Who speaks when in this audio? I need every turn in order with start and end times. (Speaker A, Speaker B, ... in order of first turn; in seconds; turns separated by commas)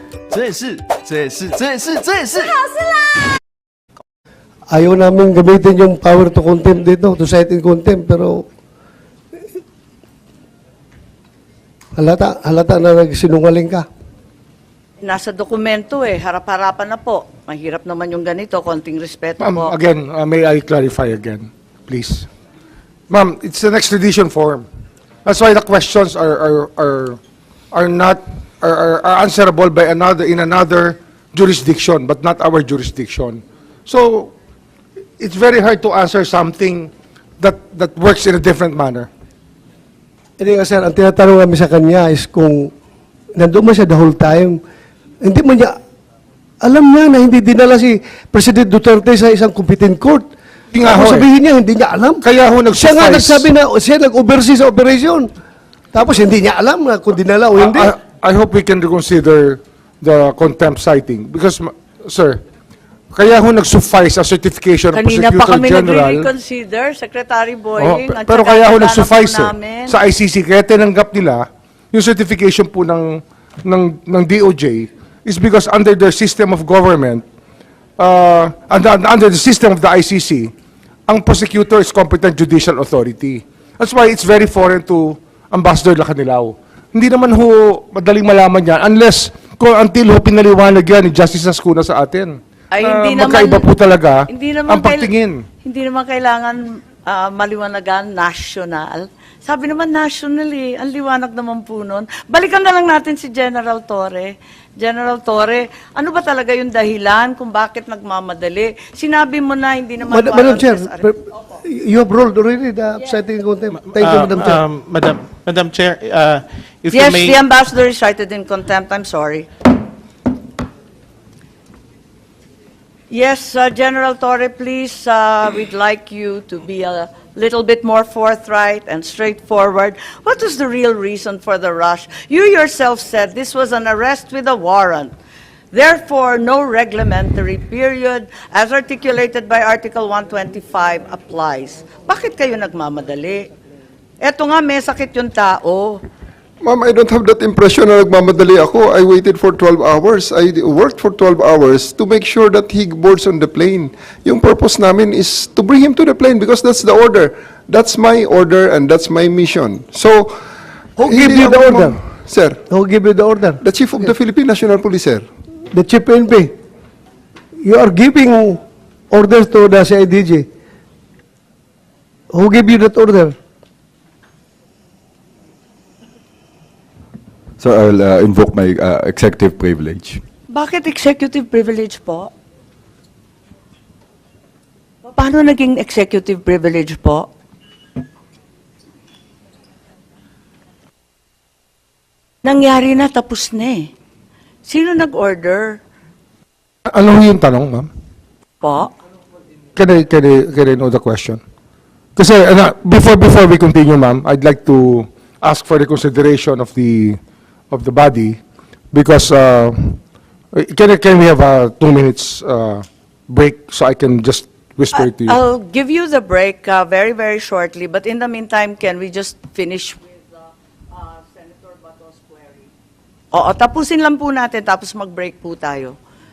Speaker A: 0.3-2.5, Speaker B: 4.7-8.4, Speaker B: 12.0-13.8, Speaker C: 15.0-19.7, Speaker D: 19.4-22.3, Speaker D: 23.1-24.6, Speaker D: 25.2-27.2, Speaker D: 27.7-34.3, Speaker D: 35.2-39.1, Speaker B: 40.4-42.7, Speaker B: 43.4-44.6, Speaker B: 45.2-45.7, Speaker B: 46.6-50.3, Speaker D: 50.7-51.2, Speaker B: 50.8-55.3, Speaker D: 52.2-53.5, Speaker B: 55.9-57.9, Speaker D: 57.6-62.4, Speaker D: 63.1-66.3, Speaker C: 64.9-70.0, Speaker D: 67.8-77.2, Speaker D: 78.0-80.5, Speaker D: 81.1-95.4, Speaker C: 92.7-93.7, Speaker C: 94.3-95.1, Speaker C: 95.6-111.1, Speaker B: 110.1-114.6, Speaker E: 113.9-117.4, Speaker C: 116.9-119.5, Speaker C: 123.1-135.1, Speaker C: 135.7-143.5, Speaker C: 144.2-146.0, Speaker F: 146.6-160.4, Speaker B: 161.0-162.0, Speaker F: 161.1-162.6, Speaker B: 162.7-164.1, Speaker F: 163.6-165.2, Speaker B: 165.7-166.5, Speaker B: 167.6-168.6, Speaker B: 169.1-170.4, Speaker B: 172.3-173.3, Speaker G: 177.6-180.2, Speaker C: 180.5-182.3, Speaker C: 185.0-187.3, Speaker C: 192.4-193.9, Speaker C: 194.6-195.8, Speaker D: 196.9-197.9, Speaker C: 198.6-198.9, Speaker D: 199.8-201.4, Speaker D: 202.2-207.2, Speaker D: 207.7-208.4, Speaker D: 208.9-210.0, Speaker D: 210.5-215.4, Speaker C: 214.9-220.2, Speaker C: 220.9-222.7, Speaker C: 223.3-225.9